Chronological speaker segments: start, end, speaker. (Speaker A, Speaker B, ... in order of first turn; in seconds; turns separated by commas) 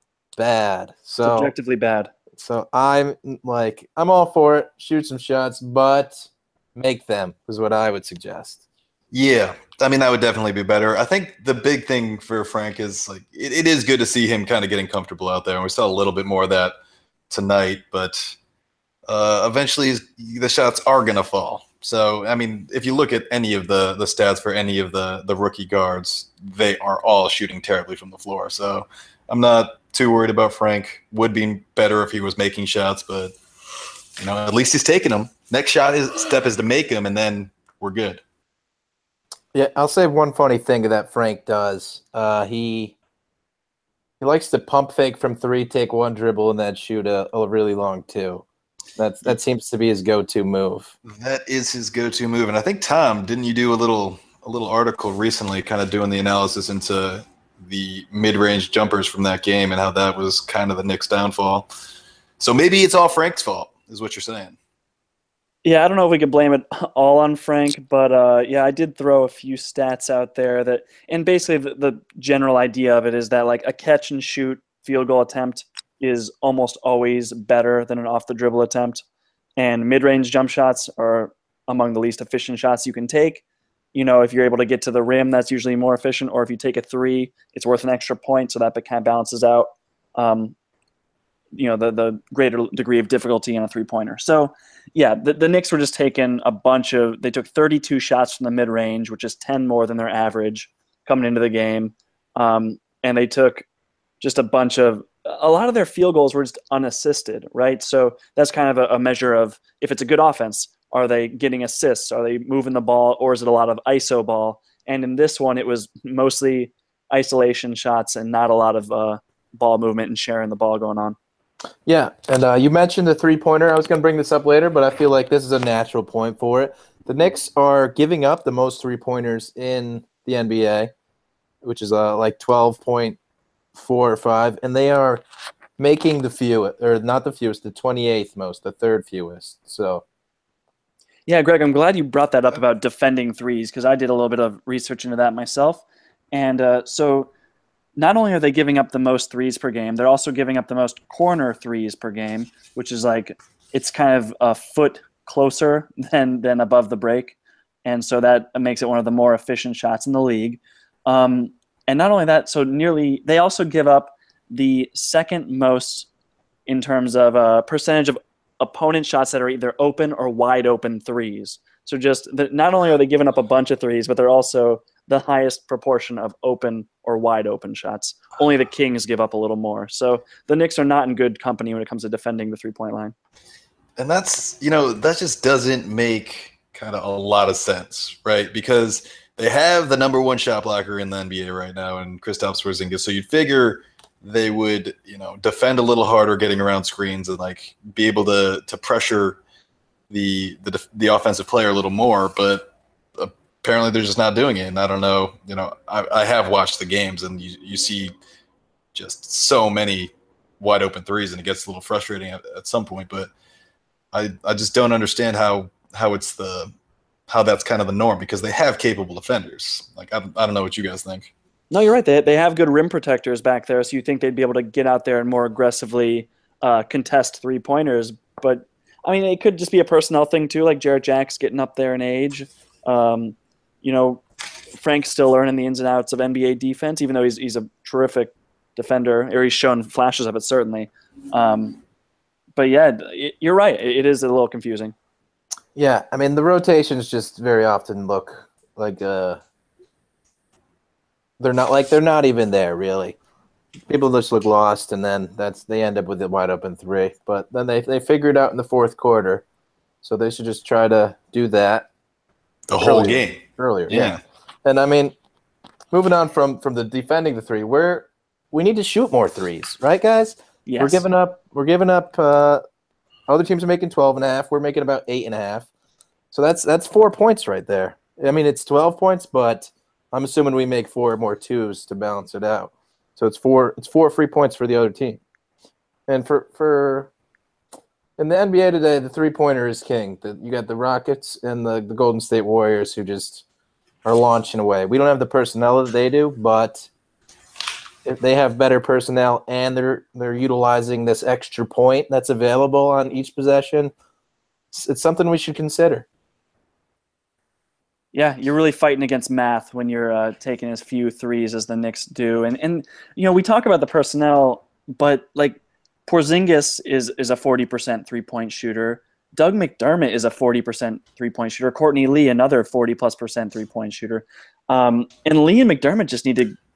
Speaker A: 0.3-1.5, Speaker B: 1.2-2.1, Speaker A: 2.3-8.6, Speaker C: 9.1-16.7, Speaker C: 17.3-18.4, Speaker C: 19.1-33.3, Speaker C: 34.2-38.2, Speaker A: 39.5-42.9, Speaker A: 44.2-48.4, Speaker A: 49.0-50.9, Speaker C: 51.0-61.7, Speaker C: 62.4-64.5, Speaker B: 65.6-79.0, Speaker B: 79.6-83.4, Speaker B: 83.9-90.5, Speaker B: 91.5-103.7, Speaker B: 104.2-121.2, Speaker A: 121.8-130.9, Speaker A: 131.6-133.2, Speaker A: 133.7-135.2, Speaker A: 135.8-140.0, Speaker B: 141.3-147.3, Speaker B: 147.9-166.1, Speaker B: 166.7-183.1, Speaker C: 184.0-199.4, Speaker C: 200.1-208.1, Speaker C: 208.9-213.3, Speaker C: 214.1-216.7, Speaker C: 217.3-221.3, Speaker B: 221.7-234.2, Speaker B: 234.8-241.8, Speaker B: 242.6-244.9, Speaker A: 245.7-249.4, Speaker A: 251.4-253.2, Speaker A: 253.9-259.4, Speaker A: 260.0-261.9, Speaker C: 262.7-264.2, Speaker A: 262.8-264.1, Speaker A: 264.6-265.1, Speaker A: 265.9-272.6, Speaker B: 270.7-271.0, Speaker A: 273.3-275.7, Speaker A: 276.3-285.2, Speaker A: 286.1-287.1, Speaker A: 288.2-293.4, Speaker A: 294.0-296.9, Speaker A: 298.0-303.9, Speaker A: 304.7-306.1, Speaker B: 308.1-326.6